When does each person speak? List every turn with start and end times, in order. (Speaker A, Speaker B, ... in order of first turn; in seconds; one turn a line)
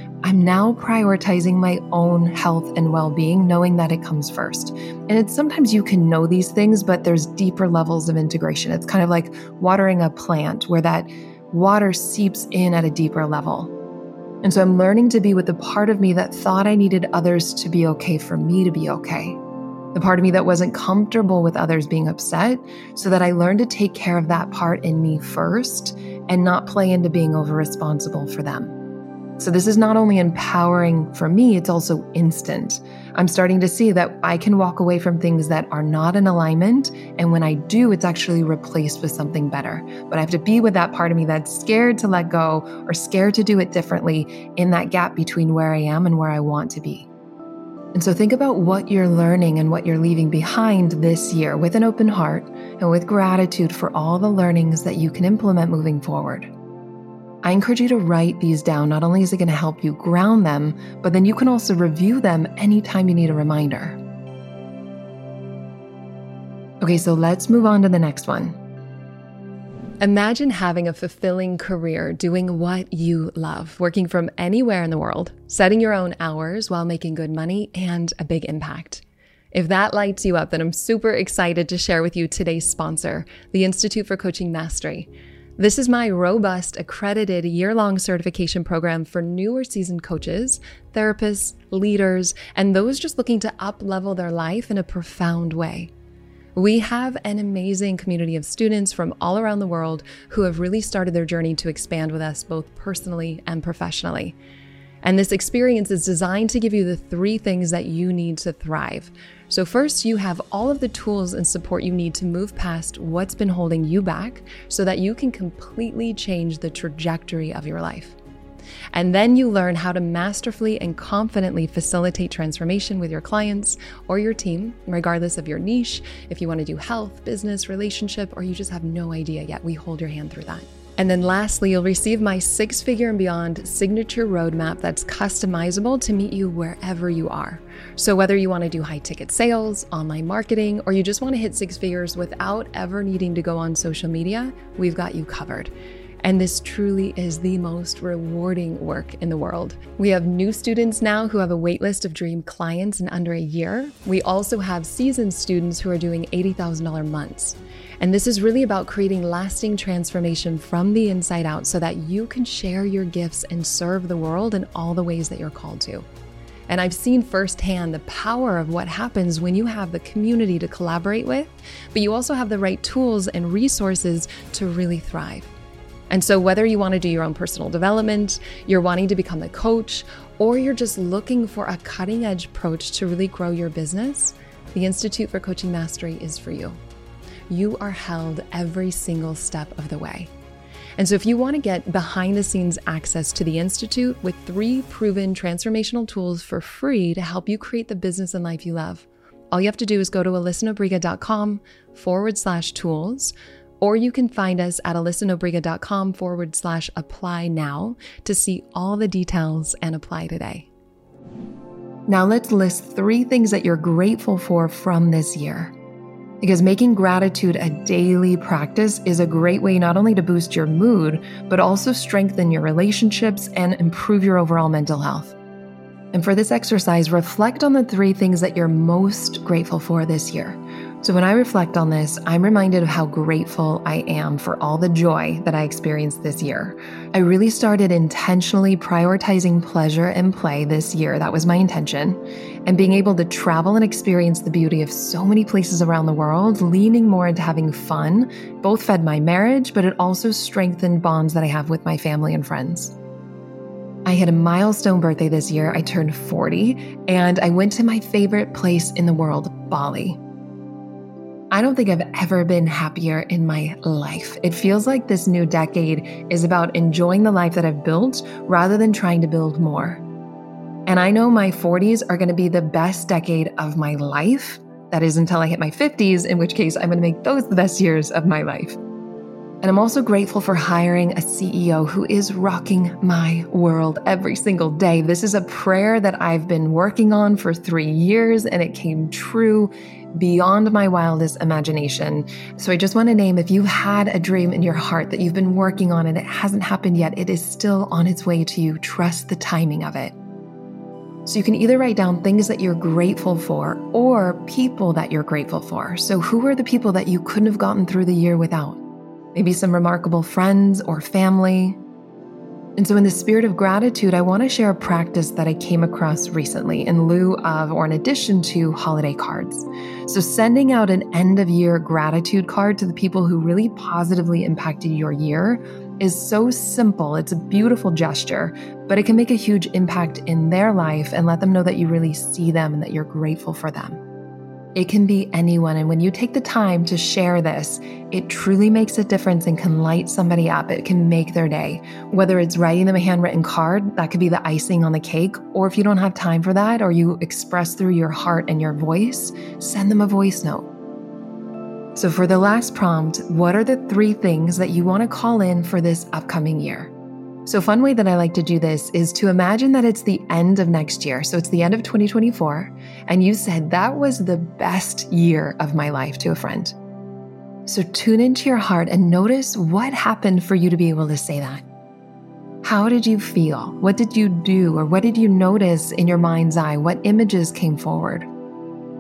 Speaker A: 0.2-13.7
Speaker A: 14.4-19.4
Speaker A: 19.9-28.7
Speaker A: 29.4-47.1
Speaker A: 47.9-56.5
Speaker A: 57.4-64.0
Speaker A: 66.8-68.6
Speaker A: 70.0-95.9
Speaker A: 96.6-104.4
Speaker A: 105.0-118.2
Speaker A: 118.9-145.7
Speaker A: 146.2-166.1
Speaker A: 166.7-175.5
Speaker A: 176.1-186.8
Speaker A: 187.5-190.3
Speaker A: 191.0-210.7
Speaker A: 212.1-215.7
Speaker A: 216.4-225.3
Speaker A: 226.1-252.9
Speaker A: 254.1-260.2
Speaker A: 261.5-270.0
Speaker A: 270.9-278.8
Speaker A: 279.6-300.1
Speaker A: 301.3-308.8
Speaker A: 309.3-311.8
Speaker A: 312.8-334.0
Speaker A: 334.8-350.7
Speaker A: 352.0-356.9
Speaker A: 357.5-366.8
Speaker A: 367.7-371.6
Speaker A: 372.6-378.3